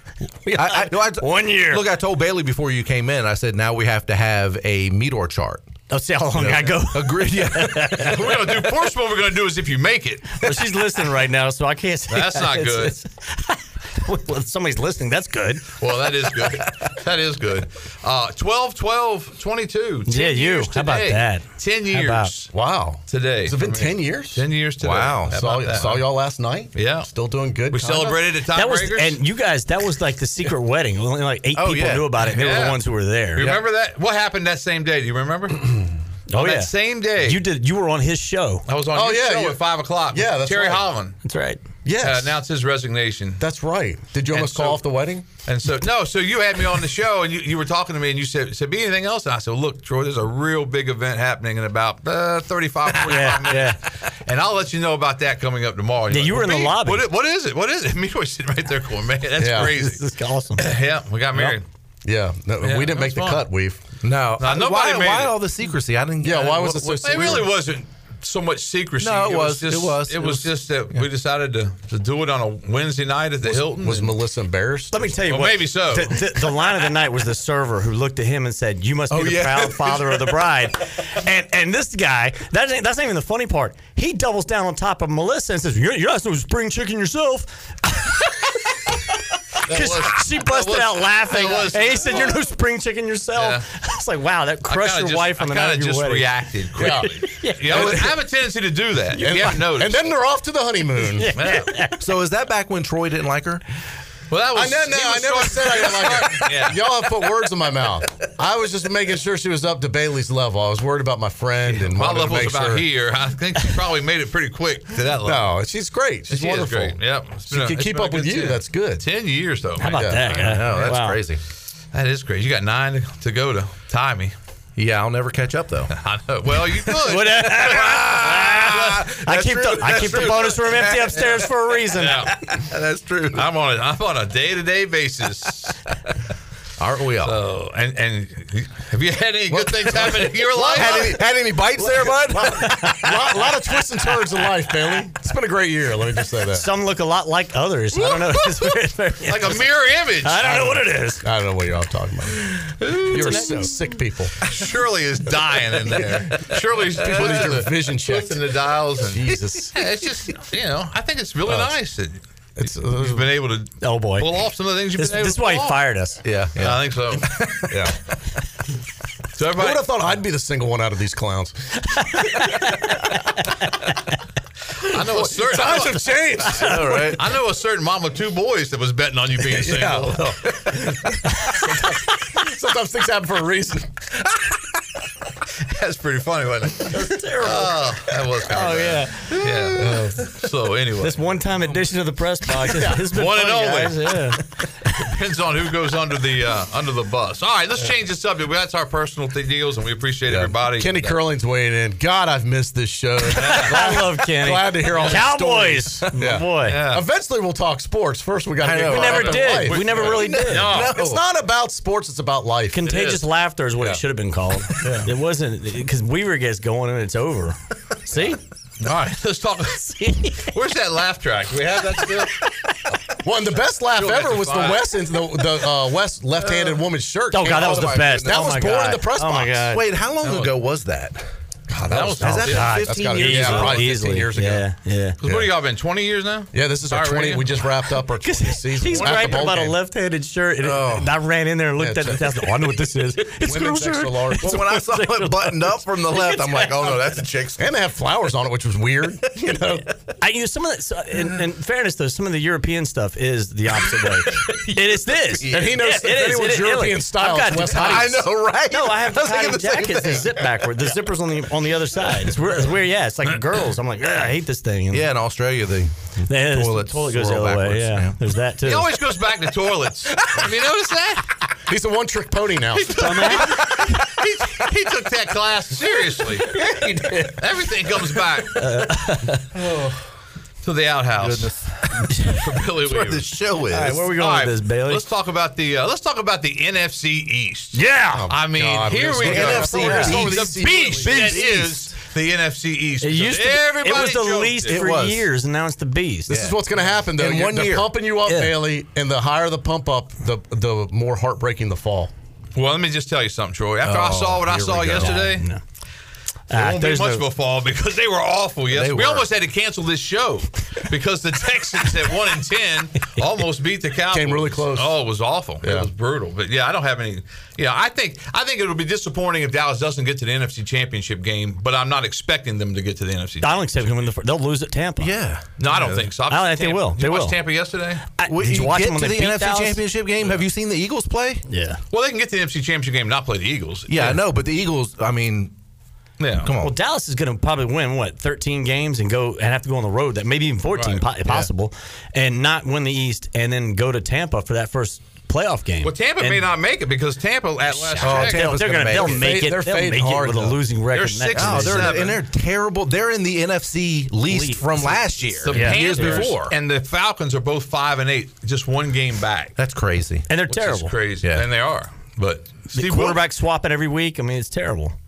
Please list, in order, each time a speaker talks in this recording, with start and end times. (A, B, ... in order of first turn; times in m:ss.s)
0:00.4-0:01.8 A
0:00.5-0:05.7 B
0:05.9-0:08.1 A
0:06.3-0:08.4 B
0:08.0-0:10.5 C
0:10.4-0:15.8 A
0:12.1-0:13.0 C
0:15.8-0:22.5 C
0:20.1-0:22.3 A
0:22.5-0:24.4 D
0:23.1-0:26.0 C
0:24.8-0:25.4 B
0:25.3-0:28.3 D
0:26.7-0:27.1 C
0:27.7-0:29.2 C
0:28.5-0:33.6 A
0:31.5-0:32.1 B
0:32.2-0:32.8 C
0:33.4-0:35.6 C
0:36.3-0:38.6 A
0:36.3-0:37.4 C
0:38.6-0:41.2 C
0:38.9-0:40.9 D
0:41.2-0:41.6 A
0:41.8-0:42.3 D
0:42.0-0:43.4 C
0:43.4-0:45.2 D
0:44.3-0:44.8 C
0:45.4-1:00.0 C
0:53.0-0:53.8 A
0:56.1-0:57.0 A
0:59.4-0:59.7 D
0:59.6-1:00.6 A
1:00.6-1:01.6 C
1:02.0-1:03.8 D
1:02.6-1:03.4 C
1:04.0-1:07.3 B
1:04.4-1:05.4 C
1:06.2-1:07.5 D
1:07.0-1:14.1 C
1:09.0-1:11.0 B
1:13.4-1:15.2 D
1:14.9-1:28.5 A
1:15.2-1:16.5 C
1:29.6-1:32.4 C
1:29.6-1:38.1 A
1:33.4-1:33.6 C
1:34.7-1:40.1 C
1:36.8-1:38.1 D
1:39.2-1:41.3 D
1:41.0-1:42.0 A
1:41.4-1:41.7 C
1:42.0-1:43.6 B
1:44.3-1:46.8 C
1:44.5-1:52.8 D
1:51.7-1:55.5 C
1:55.2-1:59.0 D
1:56.3-2:00.7 C
1:59.8-2:01.2 A
1:59.9-2:00.3 D
2:00.4-2:01.4 B
2:01.9-2:04.3 C
2:04.8-2:05.9 B
2:05.9-2:09.1 C
2:07.0-2:12.3 A
2:07.4-2:11.4 B
2:10.0-2:10.3 C
2:11.9-2:12.4 C
2:12.5-2:13.4 B
2:13.3-2:15.8 C
2:16.8-2:17.4 B
2:17.2-2:21.2 C
2:19.5-2:21.2 D
2:20.7-2:23.1 B
2:22.0-2:23.1 A
2:22.4-2:26.7 D
2:26.5-2:29.6 A
2:29.2-2:30.9 C
2:30.2-2:31.2 A
2:31.2-2:34.4 D
2:32.8-2:33.5 C
2:33.1-2:33.7 A
2:34.4-2:45.8 C
2:35.9-2:36.3 D
2:37.0-2:39.8 D
2:41.5-2:41.7 D
2:42.6-2:43.3 D
2:43.8-2:44.3 A
2:45.0-2:46.2 A
2:46.2-2:47.8 B
2:46.6-2:47.2 C
2:47.7-2:47.9 D
2:49.4-2:49.9 C
2:49.5-2:51.8 D
2:52.0-2:53.1 A
2:54.9-3:00.3 C
2:55.0-2:57.0 D
2:56.6-2:57.2 B
2:59.5-3:03.9 D
3:05.6-3:11.8 C
3:06.9-3:07.8 A
3:08.5-3:09.3 A
3:09.8-3:10.3 D
3:11.0-3:14.4 A
3:13.1-3:14.2 C
3:14.9-3:21.2 C
3:20.3-3:32.8 D
3:23.3-3:26.8 A
3:23.3-3:23.8 C
3:24.9-3:25.2 C
3:26.6-3:27.0 C
3:28.6-3:31.2 B
3:28.8-3:30.9 A
3:29.0-3:30.9 C
3:32.7-3:38.4 A
3:32.8-3:33.2 C
3:34.8-3:35.1 C
3:38.8-3:42.3 C
3:43.2-3:49.7 D
3:43.9-3:44.9 C
3:47.3-3:49.8 A
3:47.5-3:48.5 B
3:49.7-3:51.3 B
3:50.2-3:50.5 C
3:51.7-3:54.6 D
3:51.9-3:53.7 C
3:52.2-3:53.8 B
3:52.2-3:55.2 A
3:55.2-3:57.6 C
3:56.5-3:59.8 D
3:58.2-4:07.2 A
4:00.6-4:01.1 B
4:01.8-4:02.3 D
4:03.4-4:04.6 D
4:04.4-4:07.7 B
4:07.6-4:09.8 D
4:10.2-4:25.0 A
4:14.3-4:15.7 B
4:15.5-4:18.2 D
4:17.8-4:20.4 B
4:24.9-4:28.2 B
4:26.3-4:28.9 A
4:28.6-4:31.2 C
4:31.7-4:33.4 D
4:32.8-4:36.5 C
4:33.0-4:33.4 A
4:33.4-4:33.8 B
4:36.6-4:36.9 B
4:37.3-4:38.6 C
4:38.6-4:39.4 A
4:40.6-4:41.5 C
4:41.2-4:42.1 B
4:42.2-4:43.3 C
4:42.8-4:44.0 B
4:43.7-4:45.0 A
4:44.0-4:54.8 C
4:47.7-4:48.2 A
4:48.1-4:51.7 D
4:49.2-4:51.9 B
4:49.8-4:50.2 A
4:53.0-4:56.5 A
4:54.6-4:55.2 B
4:56.3-4:57.9 B
4:56.3-5:02.1 D
4:58.2-4:58.6 A
5:02.5-5:05.5 C
5:03.8-5:05.2 B
5:05.0-5:05.6 A
5:06.5-5:07.2 A
5:06.5-5:24.1 C
5:08.7-5:09.3 B
5:14.1-5:15.0 D
5:15.6-5:15.9 D
5:23.4-5:25.1 A
5:25.0-5:25.5 B
5:25.6-5:28.0 C
5:26.2-5:27.4 A
5:28.2-5:29.8 A
5:28.3-5:31.4 B
5:31.5-5:31.8 A
5:31.9-5:34.2 C
5:33.9-5:35.5 B
5:36.2-5:36.5 C
5:36.4-5:36.7 B
5:36.6-5:46.5 A
5:40.7-5:41.0 C
5:45.8-5:48.5 C
5:47.8-5:52.0 A
5:48.0-5:49.3 B
5:49.0-5:50.6 D
5:50.9-5:52.2 C
5:51.3-5:56.5 B
5:54.2-5:56.3 A
5:55.2-5:59.5 C
5:59.6-6:00.3 B
6:00.3-6:00.9 A
6:00.5-6:03.2 C
6:02.7-6:04.9 A